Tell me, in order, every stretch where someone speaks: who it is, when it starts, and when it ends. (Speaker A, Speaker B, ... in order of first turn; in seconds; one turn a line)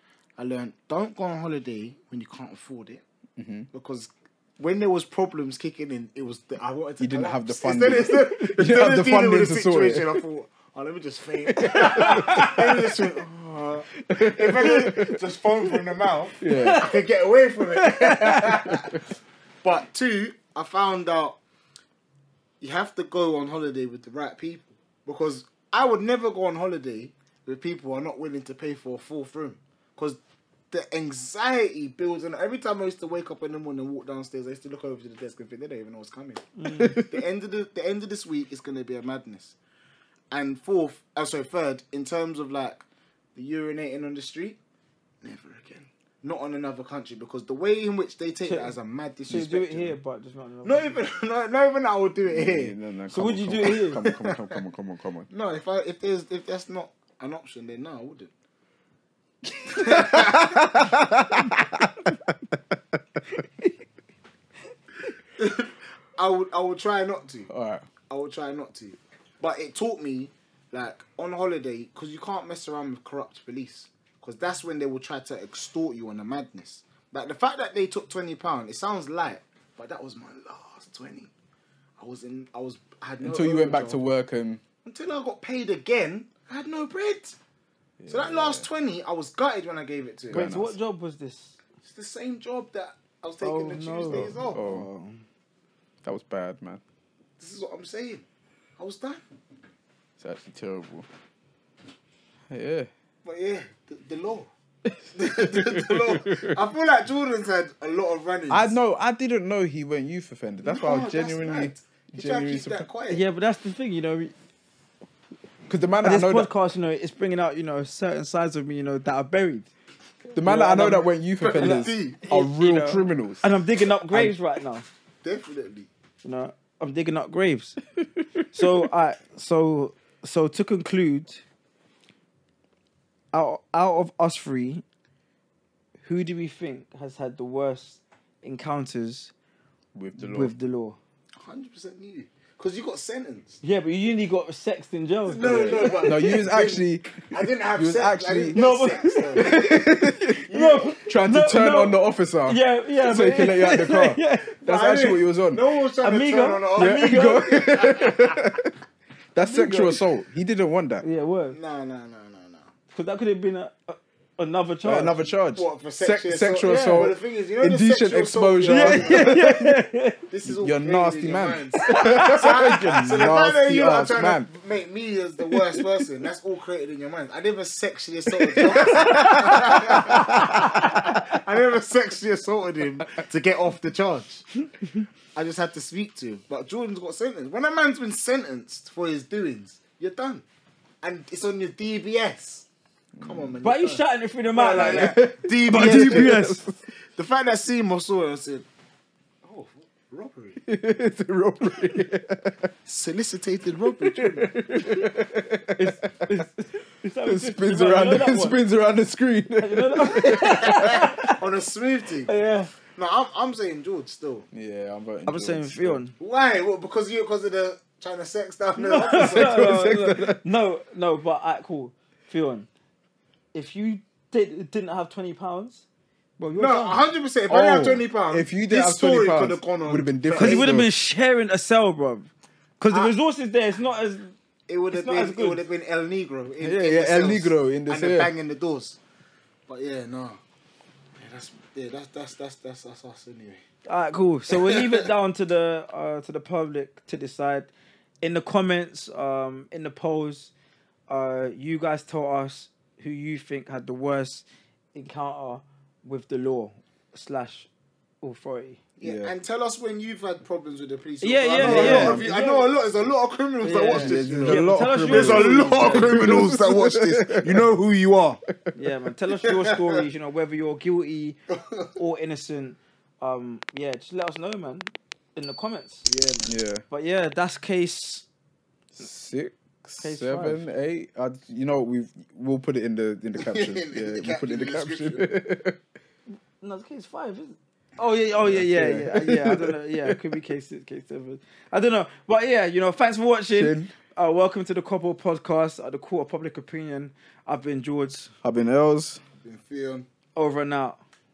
Speaker A: 0.4-3.0
Speaker B: 3.4-3.7
Speaker A: 3.7-19.0
Speaker B: 7.0-10.2
Speaker B: 11.5-13.0
Speaker C: 11.8-12.6
Speaker B: 14.1-15.2
Speaker C: 14.6-15.1
Speaker B: 16.4-16.9
Speaker C: 16.4-16.9
Speaker C: 17.8-18.6
Speaker B: 18.4-19.0
Speaker A: 19.6-21.4
Speaker A: 22.6-30.2
Speaker A: 30.7-39.5
Speaker C: 36.6-37.0
Speaker B: 36.7-37.0
Speaker A: 40.3-42.8
Speaker A: 43.4-44.6
Speaker A: 45.2-50.0
Speaker C: 48.4-48.8
Speaker C: 49.3-51.0
Speaker A: 50.6-52.8
Speaker B: 52.3-55.3
Speaker C: 53.1-54.0
Speaker A: 54.0-54.6
Speaker A: 55.3-58.3
Speaker B: 59.5-62.3
Speaker A: 59.7-60.9
Speaker A: 65.4-67.5
Speaker B: 67.5-67.9
Speaker A: 68.1-81.3
Speaker A: 82.0-84.0
Speaker B: 83.2-84.6
Speaker A: 84.8-87.4
Speaker B: 88.0-88.7
Speaker A: 88.1-90.5
Speaker B: 90.3-90.8
Speaker C: 90.3-91.6
Speaker A: 91.8-94.6
Speaker C: 93.4-95.2
Speaker B: 94.1-94.9
Speaker B: 96.0-96.8
Speaker A: 97.4-98.2
Speaker A: 98.8-99.2
Speaker B: 100.2-101.1
Speaker B: 102.5-102.9
Speaker A: 103.2-104.5
Speaker B: 104.9-106.6
Speaker A: 105.2-108.8
Speaker B: 108.5-112.8
Speaker A: 110.6-113.2
Speaker C: 113.1-114.3
Speaker B: 115.7-116.5
Speaker C: 116.0-119.7
Speaker C: 120.3-124.8
Speaker B: 120.3-123.4
Speaker A: 121.4-122.2
Speaker A: 125.2-125.9
Speaker C: 126.2-127.8
Speaker C: 128.5-131.4
Speaker C: 133.3-134.8
Speaker C: 136.0-139.3
Speaker B: 139.9-140.5
Speaker C: 140.2-141.0
Speaker A: 141.4-143.6
Speaker C: 143.6-146.4
Speaker A: 145.3-151.0
Speaker B: 145.9-148.6
Speaker C: 148.5-154.6
Speaker B: 149.3-150.5
Speaker B: 151.1-155.6
Speaker A: 154.6-158.4
Speaker C: 156.0-157.6
Speaker B: 156.8-158.7
Speaker B: 159.3-161.1
Speaker C: 159.4-160.0
Speaker C: 161.0-161.6
Speaker A: 161.5-162.7
Speaker C: 162.9-165.3
Speaker B: 164.8-169.7
Speaker A: 165.5-169.6
Speaker C: 166.6-167.1
Speaker C: 168.7-170.2
Speaker A: 170.3-184.5
Speaker B: 170.4-174.5
Speaker C: 171.8-173.3
Speaker B: 178.4-181.2
Speaker C: 178.8-179.8
Speaker A: 185.3-190.4
Speaker A: 191.0-192.7
Speaker B: 193.2-193.6
Speaker A: 193.2-196.4
Speaker C: 193.6-196.7
Speaker B: 194.8-196.8
Speaker A: 197.2-198.7
Speaker A: 199.4-200.6
Speaker B: 200.6-202.7
Speaker A: 202.9-204.5
Speaker B: 203.8-206.1
Speaker C: 205.8-208.6
Speaker B: 207.2-211.1
Speaker C: 209.6-211.4
Speaker A: 210.3-212.3
Speaker C: 212.3-212.7
Speaker A: 212.9-214.5
Speaker B: 214.5-216.0
Speaker C: 215.3-216.1
Speaker A: 216.2-219.6
Speaker C: 218.8-222.7
Speaker B: 219.0-220.4
Speaker C: 223.5-225.8
Speaker C: 226.4-227.0
Speaker A: 226.6-230.8
Speaker B: 227.5-230.9
Speaker C: 230.4-232.3
Speaker C: 232.8-234.3
Speaker A: 234.7-239.0
Speaker C: 234.9-235.6
Speaker B: 236.6-238.3
Speaker A: 239.7-240.4
Speaker A: 241.2-243.6
Speaker C: 243.9-247.7
Speaker A: 244.5-245.0
Speaker C: 248.2-250.5
Speaker C: 251.1-257.7
Speaker C: 258.2-258.8
Speaker A: 259.0-268.4
Speaker B: 259.0-259.3
Speaker C: 261.2-262.7
Speaker B: 261.6-262.3
Speaker C: 263.6-266.5
Speaker B: 264.0-267.7
Speaker B: 268.5-268.8
Speaker C: 268.8-271.4
Speaker A: 269.5-269.8
Speaker A: 271.5-271.9
Speaker C: 271.9-276.1
Speaker A: 276.1-276.5
Speaker B: 276.4-276.9
Speaker C: 276.9-278.3
Speaker B: 279.0-285.8
Speaker C: 280.0-280.7
Speaker A: 283.4-285.3
Speaker C: 286.6-298.3
Speaker B: 288.4-290.4
Speaker B: 293.5-293.9
Speaker B: 298.4-299.2
Speaker A: 299.4-300.1
Speaker C: 300.4-301.0